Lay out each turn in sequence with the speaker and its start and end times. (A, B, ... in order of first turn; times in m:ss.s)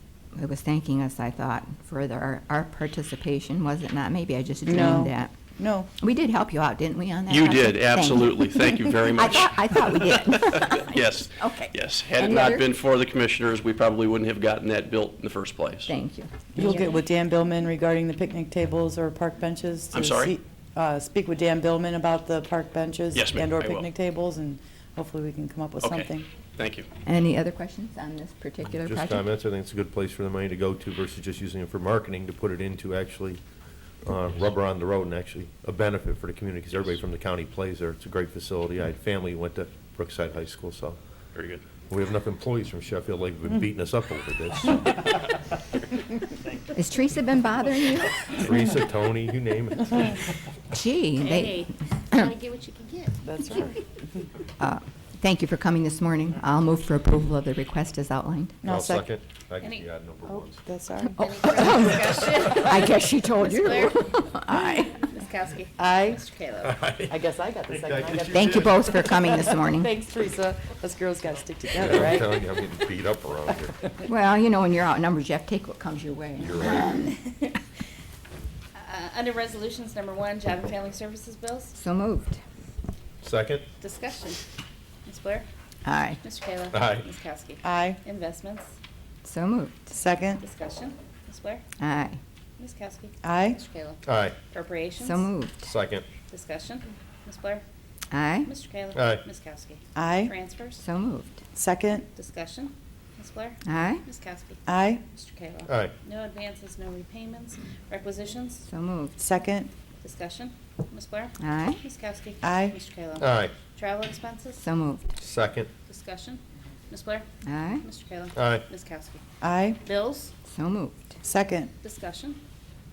0:00.4-0:05.3 A
0:04.6-0:05.9 B
0:06.0-0:12.7 A
0:07.3-0:15.9 C
0:15.9-0:17.0 A
0:16.5-0:26.3 B
0:19.9-0:20.4 C
0:23.1-0:23.9 C
0:25.8-0:26.9 C
0:27.0-0:29.3 A
0:28.8-0:33.4 D
0:34.0-0:41.0 D
0:41.3-0:41.6 C
0:41.9-0:45.0 D
0:46.7-0:48.3 A
0:48.2-0:50.2 D
0:50.7-0:52.2 A
0:52.2-0:53.1 E
0:53.2-0:54.0 B
0:54.6-0:58.6 A
0:58.6-0:59.1 B
0:58.6-1:00.6 D
1:00.3-1:01.2 B
1:01.2-1:05.0 A
1:01.3-1:02.6 E
1:03.4-1:03.9 E
1:05.1-1:05.7 E
1:05.8-1:06.2 B
1:06.3-1:06.7 E
1:06.6-1:09.0 D
1:07.1-1:12.3 B
1:08.3-1:09.9 A
1:11.8-1:13.9 D
1:14.1-1:17.2 A
1:16.4-1:16.9 D
1:18.8-1:21.7 E
1:21.8-1:22.4 A
1:23.2-1:23.7 D
1:23.8-1:24.4 E
1:25.1-1:25.5 E
1:25.8-1:26.2 A
1:26.2-1:28.7 E
1:26.7-1:27.0 D
1:27.6-1:28.0 B
1:29.2-1:29.8 A
1:29.9-1:30.4 B
1:30.4-1:31.6 E
1:31.8-1:32.2 A
1:32.6-1:33.1 E
1:33.2-1:33.6 B
1:33.6-1:34.0 E
1:34.0-1:34.4 D
1:34.5-1:35.1 E
1:35.0-1:35.7 A
1:35.6-1:36.1 D
1:36.3-1:37.6 E
1:38.1-1:38.5 A
1:38.5-1:39.8 E
1:38.9-1:39.2 D
1:40.0-1:40.3 B
1:40.4-1:40.8 E
1:40.8-1:41.4 A
1:41.5-1:42.1 B
1:42.2-1:44.6 E
1:43.6-1:44.0 A
1:44.7-1:45.0 B
1:45.1-1:48.6 E
1:45.7-1:45.9 D
1:48.7-1:49.2 A
1:49.2-1:49.7 B
1:50.0-1:53.2 E
1:51.4-1:51.8 A
1:52.4-1:52.8 B
1:53.2-1:53.5 D
1:53.8-1:54.6 E
1:54.6-1:55.2 A
1:55.2-1:55.7 D
1:55.9-1:57.2 E
1:57.5-1:57.8 A
1:57.8-1:59.2 E
1:58.4-1:58.7 D
1:59.4-1:59.8 B
1:59.9-2:00.3 E
2:00.4-2:01.2 A
2:01.2-2:01.7 B
2:01.8-2:02.4 E